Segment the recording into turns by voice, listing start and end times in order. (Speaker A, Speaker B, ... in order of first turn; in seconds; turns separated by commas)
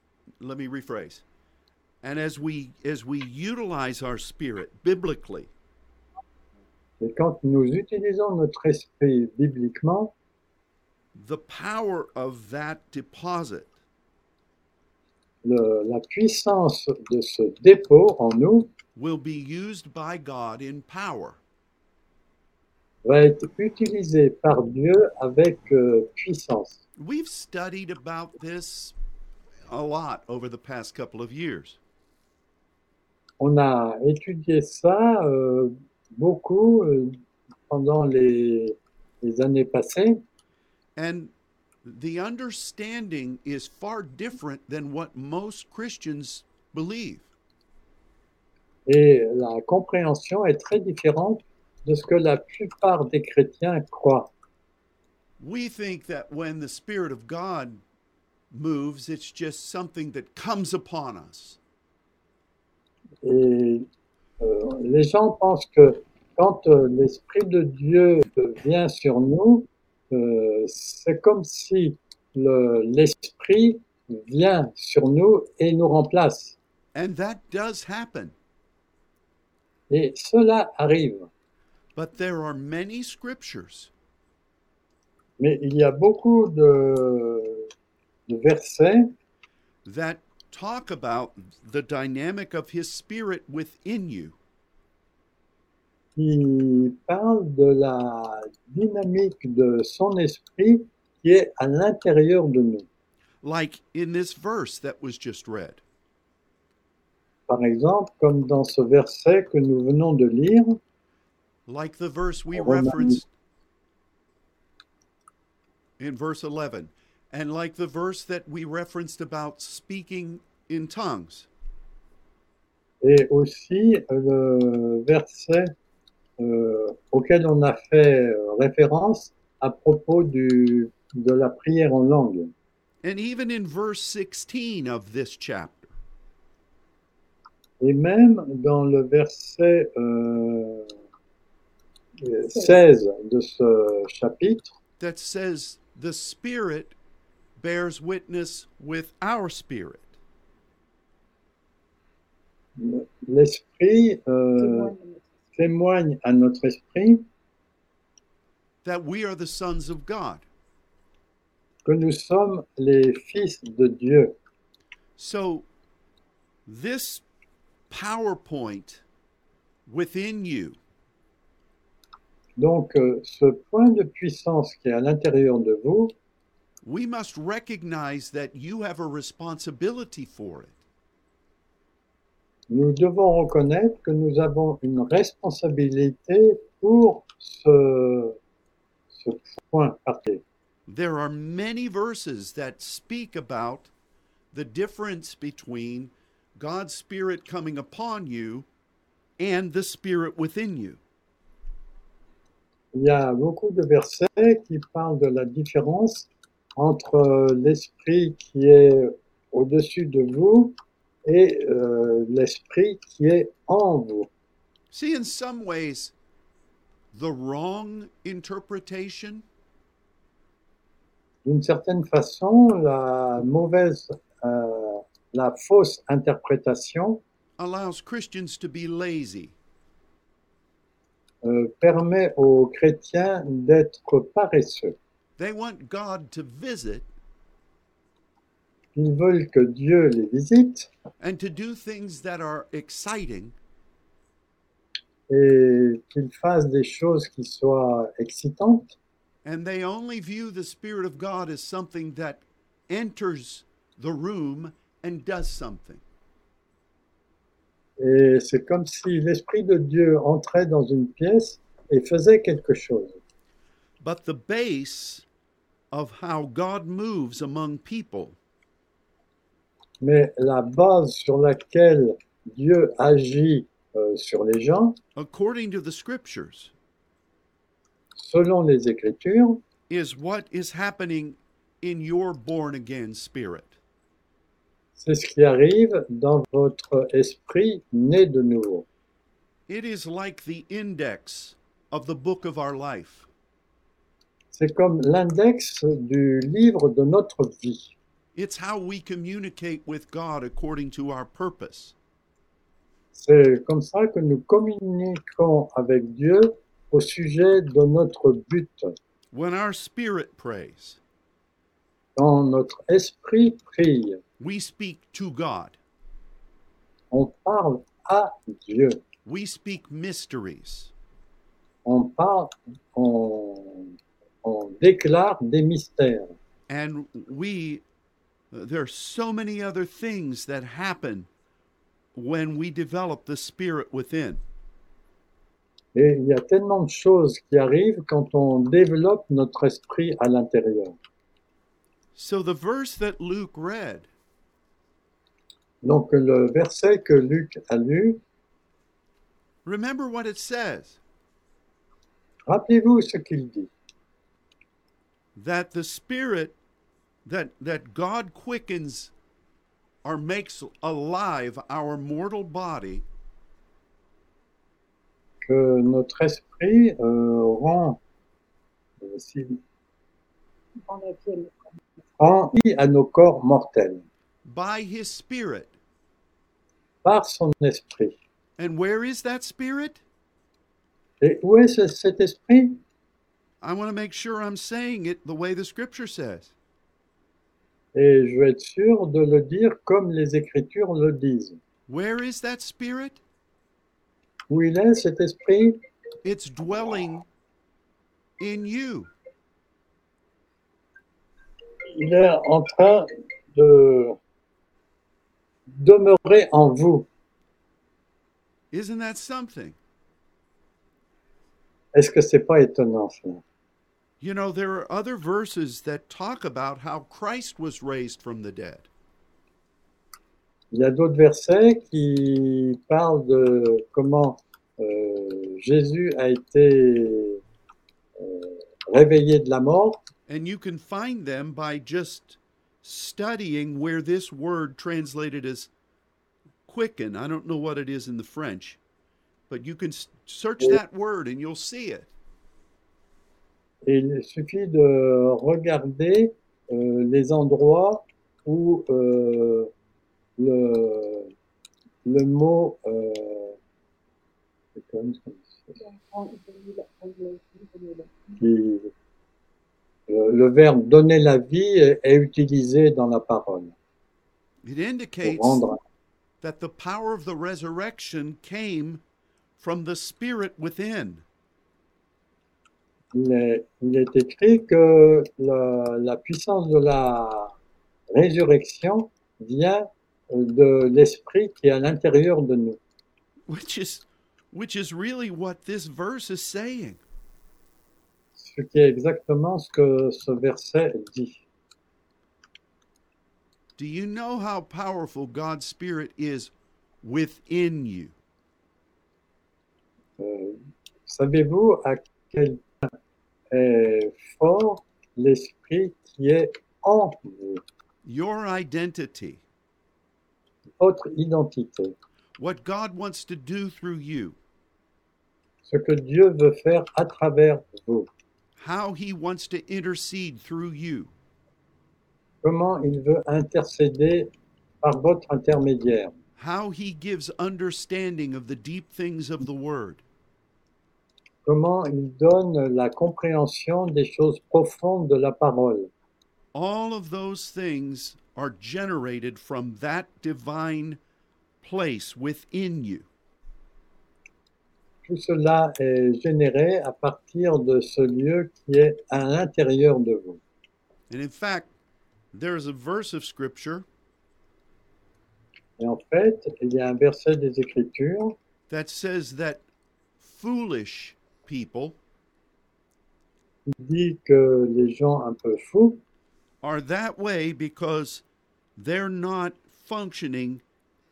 Speaker A: 0.4-1.2, Speaker A: 2.0-5.5, Speaker B: 7.0-10.1, Speaker A: 11.1-13.7, Speaker B: 15.4-18.7, Speaker A: 18.9-21.4, Speaker B: 23.0-26.8, Speaker A: 27.0-28.9, Speaker A: 29.7-31.8, Speaker B: 33.4-40.2, Speaker A: 41.0-41.3, Speaker A: 41.8-47.3, Speaker B: 48.9-54.3, Speaker A: 55.4-57.8, Speaker A: 58.5-61.6, Speaker B: 63.2-63.9, Speaker B: 64.4-76.6, Speaker A: 76.9-78.3, Speaker B: 79.9-81.3, Speaker A: 82.0-83.9, Speaker B: 85.4-87.7, Speaker B: 88.3-89.1, Speaker A: 89.8-94.4, Speaker B: 96.2-102.8, Speaker A: 103.4-105.8, Speaker B: 107.5-110.8, Speaker A: 111.7-113.3, Speaker B: 112.5-113.2, Speaker A: 116.0-121.5, Speaker B: 123.0-125.7, Speaker B: 126.4-132.5, Speaker A: 133.0-135.9, Speaker B: 137.8-140.9, Speaker B: 142.2-144.7, Speaker A: 145.0-146.9, Speaker A: 147.6-150.1, Speaker B: 152.8-154.9, Speaker C: 154.6-155.3, Speaker B: 155.5-157.3, Speaker A: 158.8-160.4, Speaker B: 161.8-164.3, Speaker A: 165.2-165.7, Speaker A: 166.7-167.2, Speaker A: 167.9-169.0, Speaker A: 169.9-170.8, Speaker B: 172.6-176.1, Speaker A: 176.8-180.8, Speaker B: 182.7-188.4, Speaker B: 189.1-190.4, Speaker A: 190.9-193.9, Speaker A: 194.5-198.7, Speaker A: 199.4-201.0, Speaker B: 202.9-214.3, Speaker A: 214.9-216.1, Speaker A: 217.1-219.4, Speaker B: 221.4-227.2, Speaker A: 227.6-229.5, Speaker B: 231.4-234.9, Speaker A: 235.4-237.1, Speaker B: 238.9-240.9, Speaker A: 241.2-243.5, Speaker B: 245.3-248.9, Speaker A: 249.4-256.0, Speaker B: 258.0-263.2, Speaker A: 264.0-265.2, Speaker A: 265.9-268.4, Speaker B: 270.0-275.0, Speaker A: 275.1-276.7, Speaker B: 278.1-279.6, Speaker A: 279.9-283.8, Speaker B: 284.9-288.8, Speaker A: 289.7-293.3, Speaker B: 294.5-297.9, Speaker A: 298.3-301.9, Speaker B: 303.1-308.9, Speaker A: 309.3-311.0, Speaker B: 312.1-314.2, Speaker A: 314.4-315.8, Speaker B: 317.1-319.0, Speaker A: 319.2-320.9, Speaker B: 321.8-326.3, Speaker A: 326.7-327.8, Speaker A: 328.5-331.3, Speaker A: 332.1-334.4, Speaker B: 335.9-341.0, Speaker A: 342.1-344.1, Speaker B: 345.8-348.2, Speaker A: 349.6-351.0, Speaker B: 352.5-353.7, Speaker A: 355.4-356.5, Speaker A: 357.2-359.1, Speaker A: 360.0-363.1, Speaker B: 365.4-368.0, Speaker B: 369.0-369.6, Speaker C: 370.8-371.6, Speaker B: 372.2-374.0, Speaker A: 374.4-375.7, Speaker B: 377.0-378.1, Speaker A: 378.6-380.0, Speaker B: 381.2-382.8, Speaker A: 383.6-386.5, Speaker B: 387.9-391.6, Speaker A: 391.9-393.2, Speaker B: 394.5-395.8, Speaker A: 396.2-397.3, Speaker A: 398.4-399.1, Speaker B: 401.9-404.2, Speaker B: 405.7-407.1, Speaker A: 408.7-409.8, Speaker B: 411.9-413.4, Speaker A: 414.2-418.9, Speaker B: 420.7-427.4, Speaker B: 428.2-430.0, Speaker A: 430.3-435.7, Speaker A: 436.6-438.8, Speaker A: 439.5-442.1, Speaker B: 443.8-449.7, Speaker B: 450.4-451.3, Speaker B: 452.0-453.6, Speaker B: 454.7-455.8, Speaker C: 455.8-458.3, Speaker B: 458.4-458.9, Speaker B: 460.1-463.7, Speaker A: 464.6-465.6, Speaker B: 465.2-465.8, Speaker A: 466.4-469.0, Speaker A: 469.6-471.2, Speaker B: 473.1-477.5, Speaker B: 478.1-482.8, Speaker A: 483.5-487.0, Speaker B: 488.4-491.4, Speaker A: 493.8-498.1, Speaker B: 500.2-502.9, Speaker B: 503.5-507.6, Speaker A: 508.0-509.4, Speaker B: 510.8-511.9, Speaker A: 512.4-514.4, Speaker B: 515.6-518.1, Speaker A: 518.6-521.1, Speaker B: 522.4-524.3, Speaker B: 524.8-526.1, Speaker A: 526.4-530.0, Speaker B: 531.4-535.9, Speaker A: 536.5-541.0, Speaker A: 541.6-543.1, Speaker B: 545.0-550.4, Speaker A: 551.1-551.7, Speaker A: 552.3-553.9, Speaker B: 555.8-558.4, Speaker A: 558.7-559.6, Speaker A: 560.2-562.0, Speaker B: 563.7-566.0, Speaker A: 566.6-568.2, Speaker A: 568.8-570.6